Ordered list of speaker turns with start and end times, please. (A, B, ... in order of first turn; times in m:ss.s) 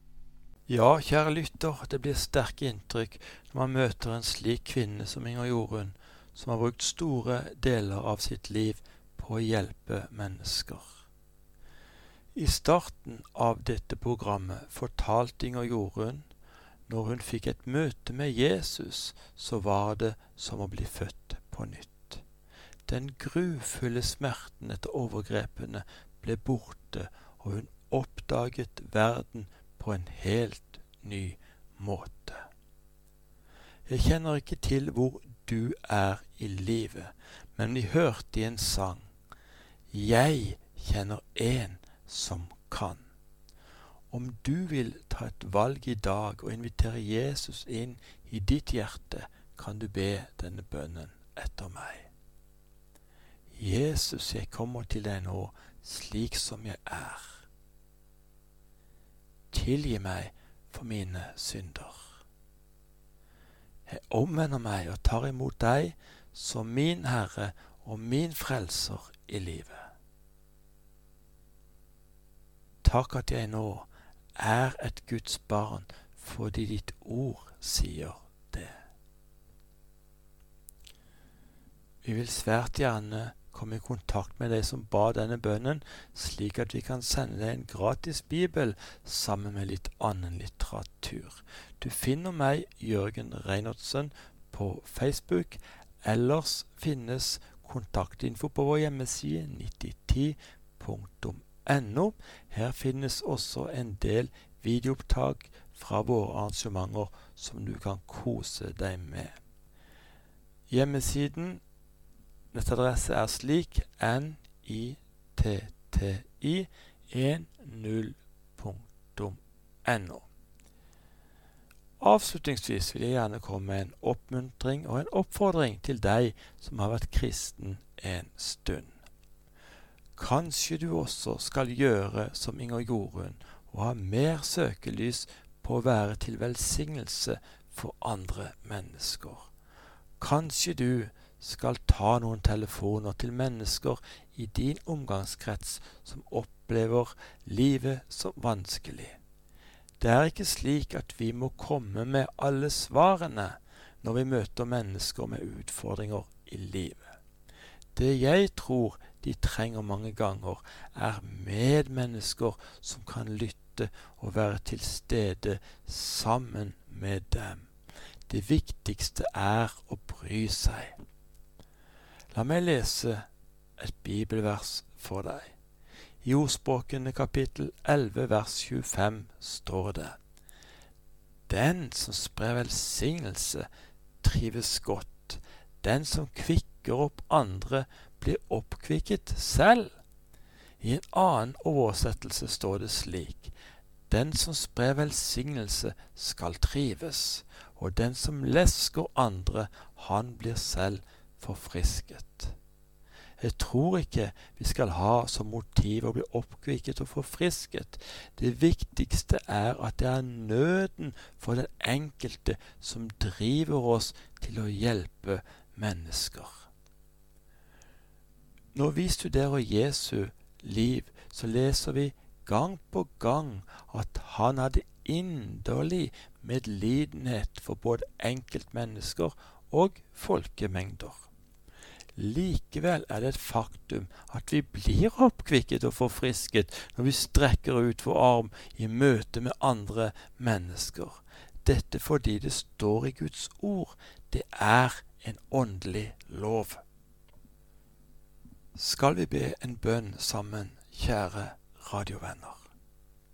0:00.7-0:11.0 A
0:12.3-0:16.2 A
0:16.9-0:22.2 A
0:22.9-0:32.5 A
0:33.9-0:39.0 A
0:39.9-0:43.0 A
0:44.1-0:52.1 A
0:53.5-0:57.4 A
0:59.5-1:02.1 A
1:03.8-1:09.9 A
1:12.8-1:18.8 A
1:22.0-1:49.3 A
1:50.7-1:51.6 A
1:52.5-2:00.2 A
2:02.0-2:08.9 A
2:10.2-2:19.5 A
2:20.2-2:29.2 A
2:30.0-2:37.1 A
2:37.9-2:47.7 A
2:48.3-2:50.9 A
2:52.3-2:53.2 A
2:53.8-2:55.5 A
2:56.2-3:00.2 A
3:01.5-3:03.6 A
3:04.2-3:09.9 A
3:10.8-3:13.5 A
3:14.1-3:22.6 A
3:23.4-3:36.6 A
3:38.7-3:51.3 A
3:52.2-4:06.8 A
4:08.7-4:12.6 A